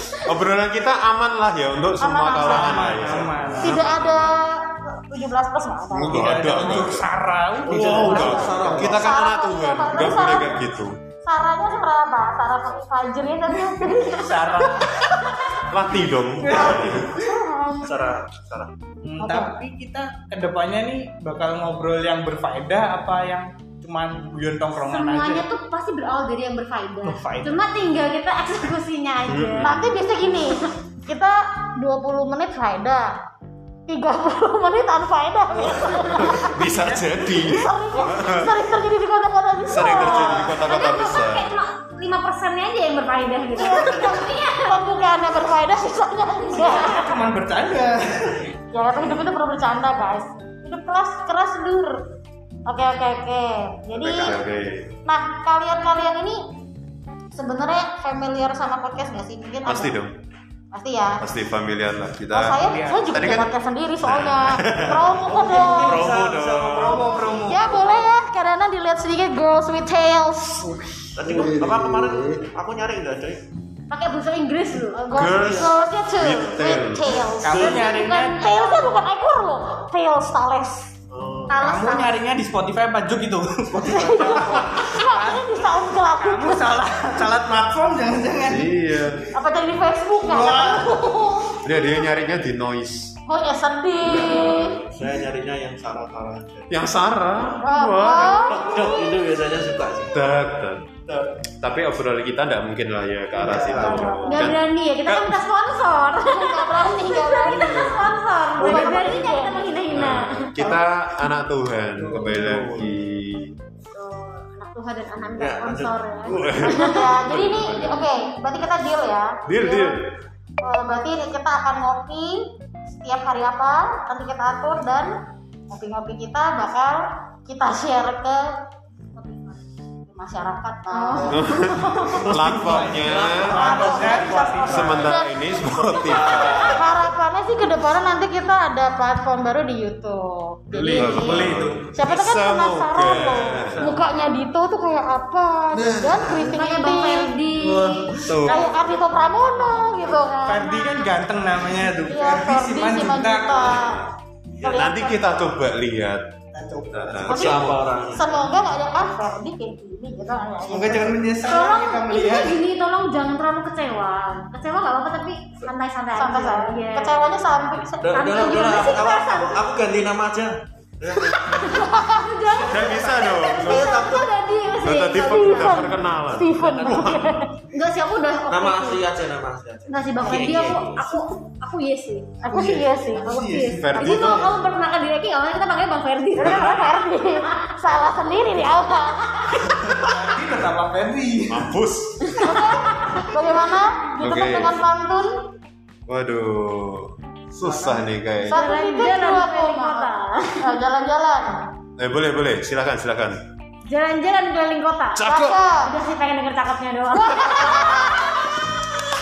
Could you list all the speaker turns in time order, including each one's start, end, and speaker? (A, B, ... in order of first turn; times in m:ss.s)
0:00.3-0:04.4 A
0:02.0-0:03.0 B
0:02.4-0:03.8 C
0:03.6-0:06.4 B
0:05.9-0:07.1 A
0:06.1-0:08.7 C
0:07.6-0:09.0 D
0:07.7-0:10.9 A
0:08.0-0:10.6 B
0:11.2-0:14.9 B
0:14.0-0:15.3 C
0:15.7-0:17.1 A
0:16.4-0:16.9 C
0:16.9-0:17.9 B
0:17.8-0:18.7 D
0:19.0-0:25.4 C
0:19.2-0:19.5 B
0:24.9-0:29.7 E
0:27.0-0:27.6 C
0:29.3-0:29.9 A
0:29.6-0:33.1 B
0:33.9-0:36.6 B
0:35.6-0:37.1 C
0:36.2-0:38.6 A
0:37.3-0:40.4 B
0:39.7-0:41.5 A
0:40.0-0:40.6 C
0:40.4-0:45.0 E
0:43.6-0:47.2 B
0:46.5-0:48.5 C
0:48.7-0:52.0 B
0:52.7-0:54.4 B
0:54.0-0:54.9 A
0:55.1-0:56.4 B
0:57.3-1:00.0 B
0:59.6-1:00.2 A
1:00.7-1:01.2 B
1:01.2-1:07.2 A
1:02.3-1:06.2 B
1:02.6-1:03.3 C
1:05.3-1:07.6 D
1:06.7-1:08.0 C
1:07.5-1:11.5 B
1:11.2-1:13.4 D
1:13.9-1:15.0 E
1:14.9-1:20.9 B
1:15.1-1:17.4 A
1:15.4-1:15.7 D
1:17.4-1:18.6 C
1:21.1-1:21.8 D
1:21.5-1:22.1 E
1:21.5-1:28.7 C
1:23.8-1:26.8 B
1:28.4-1:29.3 A
1:29.4-1:31.3 B
1:30.2-1:31.6 C
1:31.5-1:33.2 A
1:33.3-1:34.8 B
1:34.0-1:34.9 A
1:34.2-1:36.8 D
1:36.7-1:38.5 A
1:37.6-1:38.6 B
1:38.3-1:40.4 D
1:40.1-1:40.9 A
1:41.1-1:41.4 D
1:41.6-1:45.4 A
1:43.4-1:44.2 C
1:43.4-1:44.2 D
1:43.7-1:44.4 B
1:44.2-1:50.6 E
1:46.2-1:47.8 B
1:47.5-1:48.0 A
1:48.6-1:49.9 B
1:49.9-1:53.6 A
1:52.0-1:53.0 C
1:53.9-1:57.1 E
1:55.4-1:56.0 D
1:56.3-1:58.0 A
1:56.6-1:59.9 B
1:59.5-2:00.1 A
2:00.6-2:05.2 B
2:05.7-2:08.6 B
2:09.2-2:09.6 E
2:10.1-2:12.2 B
2:10.9-2:12.1 E
2:11.3-2:13.8 A
2:12.2-2:15.1 C
2:13.0-2:17.0 D
2:13.5-2:15.4 B
2:14.6-2:16.8 A
2:16.7-2:27.3 B
2:20.7-2:23.8 A
2:20.9-2:21.9 C
2:23.6-2:24.0 C
2:25.8-2:26.4 A
2:26.4-2:28.1 E
2:27.6-2:28.7 C
2:28.3-2:28.7 A
2:28.5-2:31.2 B
2:30.5-2:33.8 C
2:32.1-2:34.1 B
2:33.6-2:34.0 A
2:34.6-2:34.9 D
2:34.6-2:35.2 B
2:34.6-2:36.2 A
2:36.5-2:37.4 C
2:36.9-2:37.9 A
2:37.2-2:38.5 D
2:37.3-2:41.2 B
2:40.7-2:42.6 C
2:41.4-2:47.2 E
2:46.1-2:48.9 B
2:48.0-2:51.9 D
2:48.1-2:49.6 E
2:51.5-2:55.9 E
2:51.7-2:52.3 B
2:52.5-2:54.3 D
2:52.7-2:54.3 A
2:54.8-2:57.4 A
2:55.0-2:57.5 B
2:56.5-2:57.3 D
2:57.7-2:59.0 E
2:58.5-3:01.1 D
2:59.9-3:02.3 E
3:00.3-3:01.2 B
3:02.4-3:03.4 B
3:02.4-3:03.8 C
3:03.2-3:09.7 E
3:03.6-3:04.6 A
3:04.0-3:04.3 B
3:06.4-3:09.9 B
3:06.4-3:06.8 A
3:09.9-3:11.7 C
3:11.5-3:12.4 A
3:12.3-3:13.0 E
3:12.4-3:15.4 B
3:14.2-3:14.8 A
3:16.1-3:18.7 A
3:17.7-3:18.0 C
3:18.5-3:21.6 B
3:18.5-3:20.7 E
3:22.0-3:23.4 A
3:23.9-3:28.6 E
3:25.2-3:25.6 A
3:25.2-3:25.9 B
3:27.2-3:28.3 B